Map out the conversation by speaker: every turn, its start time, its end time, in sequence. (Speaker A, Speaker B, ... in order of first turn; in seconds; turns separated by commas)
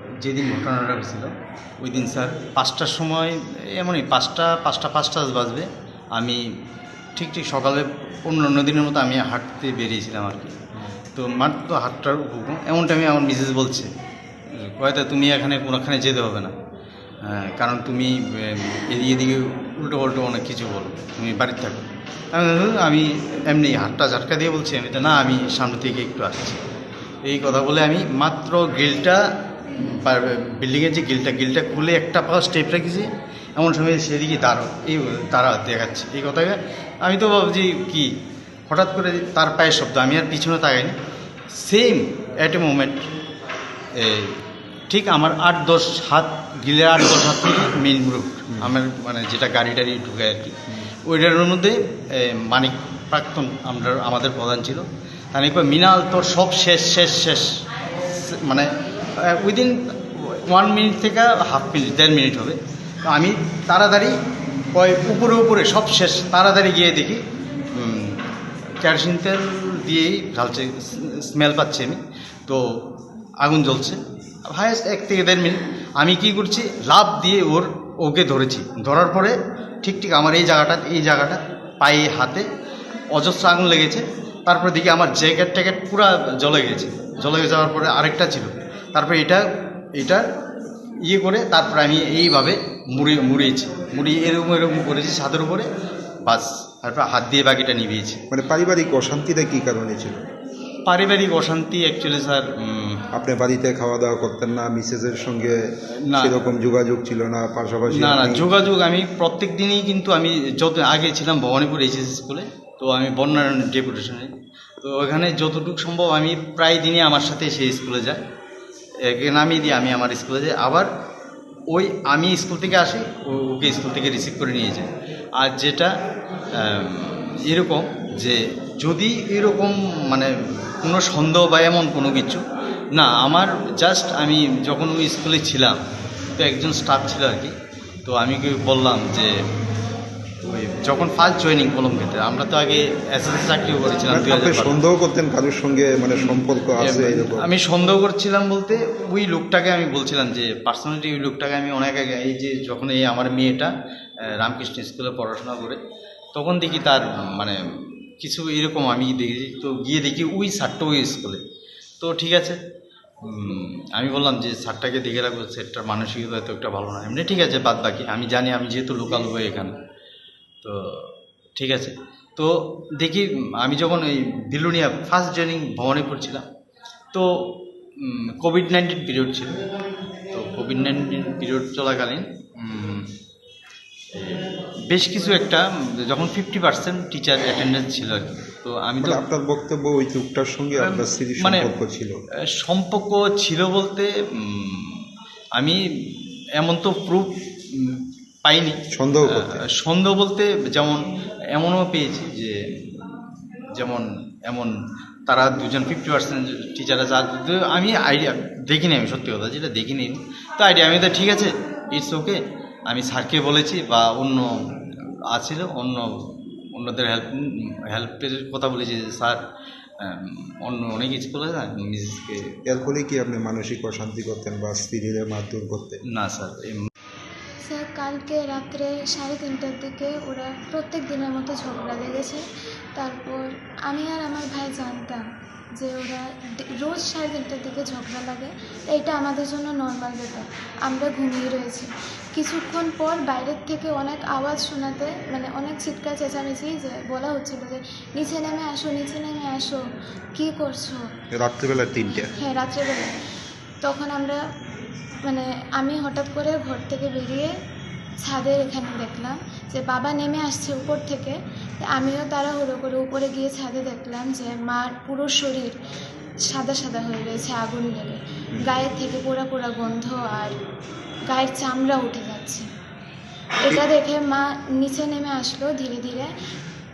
Speaker A: 0.2-6.4, Speaker A: 7.2-10.6, Speaker A: 11.2-13.9, Speaker A: 14.5-16.5, Speaker A: 17.2-26.6, Speaker A: 27.2-29.2, Speaker A: 29.7-38.1, Speaker A: 38.7-41.0, Speaker A: 41.5-43.1, Speaker A: 44.0-44.4, Speaker A: 44.9-57.5, Speaker A: 58.1-58.7, Speaker A: 59.2-64.2, Speaker A: 64.7-67.2, Speaker A: 67.8-68.2, Speaker A: 68.8-72.6, Speaker A: 73.4-82.5, Speaker A: 83.1-89.4, Speaker A: 90.0-90.3, Speaker A: 91.0-95.7, Speaker A: 96.2-98.2, Speaker B: 98.3-100.2, Speaker A: 100.9-103.0, Speaker B: 103.1-105.6, Speaker A: 106.1-106.4, Speaker B: 106.1-108.5, Speaker A: 107.9-118.2, Speaker A: 119.1-120.9, Speaker A: 121.7-125.9, Speaker A: 126.6-130.3, Speaker A: 130.8-132.4, Speaker A: 132.9-135.8, Speaker A: 136.4-139.3, Speaker A: 140.4-144.8, Speaker B: 144.1-147.5, Speaker A: 146.1-153.7, Speaker A: 154.3-155.8, Speaker A: 156.3-157.6, Speaker A: 158.2-161.4, Speaker A: 162.0-162.6, Speaker A: 163.2-169.8, Speaker A: 170.6-176.5, Speaker A: 177.1-179.6, Speaker A: 180.3-183.1, Speaker A: 184.2-189.2, Speaker B: 189.0-192.2, Speaker A: 190.8-191.7, Speaker A: 192.6-201.0, Speaker B: 198.9-199.6, Speaker A: 201.5-203.2, Speaker A: 203.8-204.7, Speaker A: 205.3-214.5, Speaker A: 215.3-219.4, Speaker A: 220.0-222.5, Speaker B: 222.7-226.0, Speaker A: 226.1-226.8, Speaker C: 227.6-232.4, Speaker C: 233.0-235.2, Speaker C: 235.8-249.8, Speaker C: 250.3-251.0, Speaker B: 251.3-252.3, Speaker C: 252.3-253.2, Speaker C: 253.8-254.4, Speaker C: 255.3-257.5, Speaker C: 258.2-265.7, Speaker C: 266.4-270.6, Speaker C: 271.3-272.7, Speaker C: 273.6-276.3